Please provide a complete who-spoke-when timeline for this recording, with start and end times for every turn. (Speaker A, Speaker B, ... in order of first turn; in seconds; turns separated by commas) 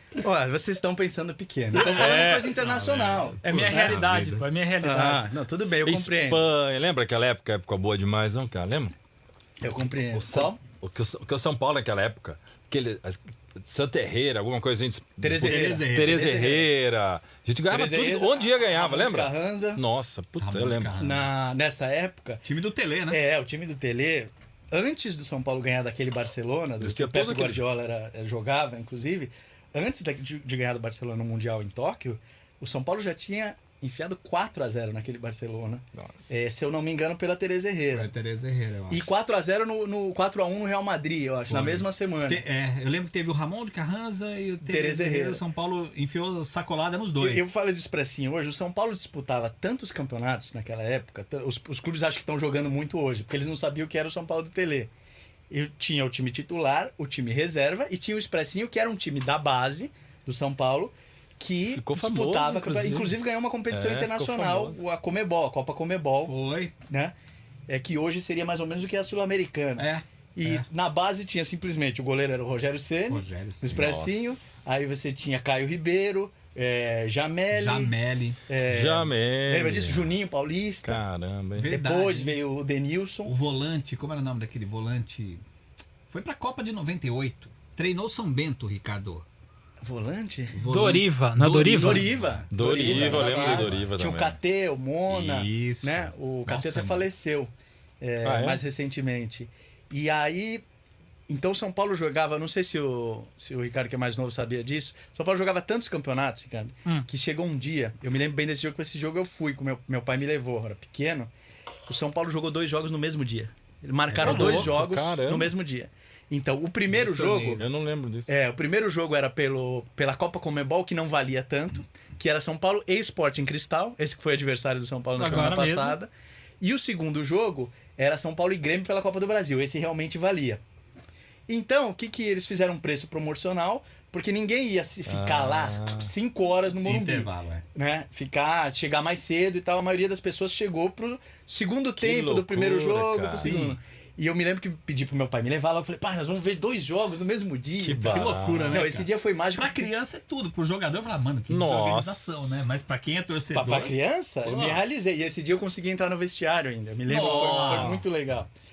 Speaker A: 0.2-4.0, Speaker B: 1.7-4.5, Speaker C: 1.7-2.6, Speaker D: 3.4-5.3, Speaker A: 4.8-6.4, Speaker C: 5.8-8.9, Speaker A: 9.6-10.6, Speaker C: 10.1-20.9, Speaker A: 15.2-16.7, Speaker B: 15.2-16.3, Speaker A: 17.7-19.8, Speaker B: 20.4-21.3, Speaker A: 21.0-22.4, Speaker B: 22.4-23.2, Speaker A: 23.1-38.1, Speaker C: 26.8-27.6, Speaker C: 35.9-36.3, Speaker B: 37.9-39.1, Speaker A: 38.9-42.4, Speaker B: 41.5-47.5, Speaker A: 44.6-45.4, Speaker A: 47.2-54.9, Speaker A: 55.5-66.3, Speaker C: 61.7-63.2, Speaker C: 63.7-64.8, Speaker B: 66.2-66.7, Speaker A: 66.9-67.1, Speaker A: 67.7-77.9, Speaker B: 69.8-70.7, Speaker B: 73.1-73.9, Speaker C: 73.7-74.5, Speaker B: 77.5-78.4, Speaker A: 78.5-81.0, Speaker C: 78.7-80.1, Speaker C: 80.8-81.7, Speaker B: 81.6-82.4, Speaker A: 81.7-83.3, Speaker B: 83.3-85.4, Speaker B: 86.1-89.3, Speaker A: 89.8-90.6, Speaker B: 90.5-93.9, Speaker D: 90.7-92.1, Speaker A: 91.7-100.6, Speaker C: 92.5-94.4, Speaker B: 95.1-97.1, Speaker C: 98.2-98.6, Speaker A: 101.3-111.3, Speaker A: 111.9-117.7, Speaker B: 114.1-114.9, Speaker C: 114.2-115.5, Speaker B: 116.9-117.7, Speaker C: 117.6-118.3, Speaker A: 118.3-126.1, Speaker D: 125.2-126.0, Speaker A: 126.6-130.6, Speaker A: 131.5-149.9, Speaker C: 135.1-136.1, Speaker B: 136.8-137.7, Speaker C: 142.0-143.5, Speaker B: 143.3-143.8, Speaker C: 147.8-148.8, Speaker B: 148.1-154.8, Speaker C: 151.5-152.6, Speaker A: 153.5-158.5, Speaker B: 157.1-158.4, Speaker C: 157.3-158.0